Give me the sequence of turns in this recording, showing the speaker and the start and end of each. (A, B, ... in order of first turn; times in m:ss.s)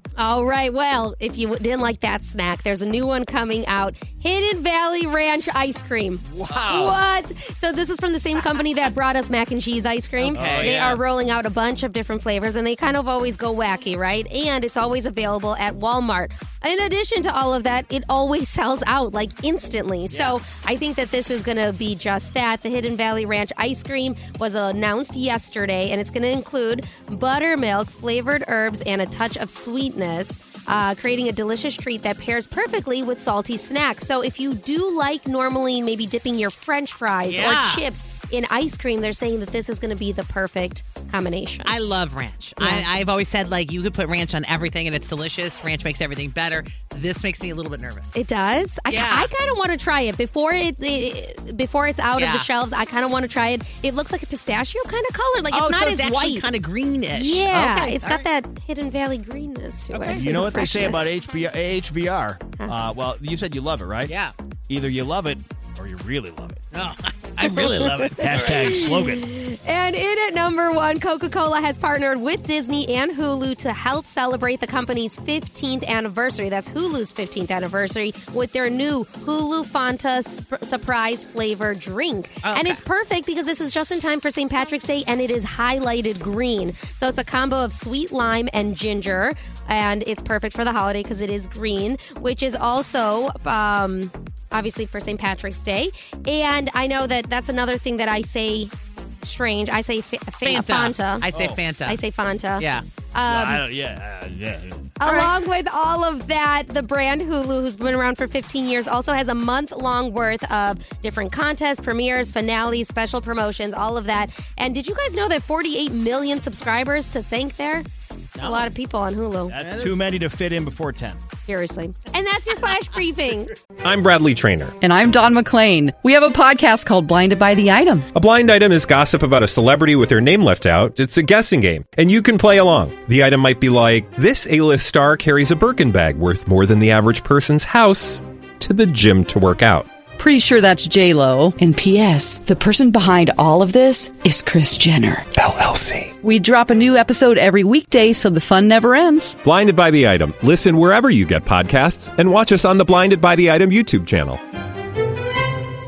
0:00.2-0:41.8 A
0:06.3-0:07.0 B
0:10.2-0:11.0 C
0:10.4-0:11.0 B
0:20.1-0:20.4 B
0:37.3-0:37.8 C
0:41.6-0:48.2 C
0:42.6-0:42.9 A
0:48.2-0:56.5 A
0:48.9-0:49.3 C
0:52.2-0:52.5 C
0:55.5-0:58.3 C
0:57.1-1:01.1 A
0:59.9-1:00.3 C
1:00.1-1:04.1 B
1:04.1-1:04.3 C
1:04.7-1:06.6 B
1:06.7-1:08.5 C
1:07.4-1:09.3 B
1:08.3-1:41.3 A
1:22.4-1:22.8 C
1:40.4-1:42.0 C
1:41.3-1:41.6 B
1:41.8-1:43.7 A
1:42.6-1:42.8 C
1:43.3-1:44.9 B
1:45.0-1:57.9 A
1:45.0-1:45.3 C
1:58.4-1:58.7 C
1:58.4-1:59.6 A
1:59.5-2:01.2 B
1:59.5-2:00.0 C
2:01.4-2:03.6 A
2:03.8-2:04.8 D
2:04.8-2:08.1 E
2:08.1-2:19.9 D
2:20.2-2:25.3 E
2:25.4-2:26.1 D
2:26.2-2:29.4 E
2:29.4-2:34.4 D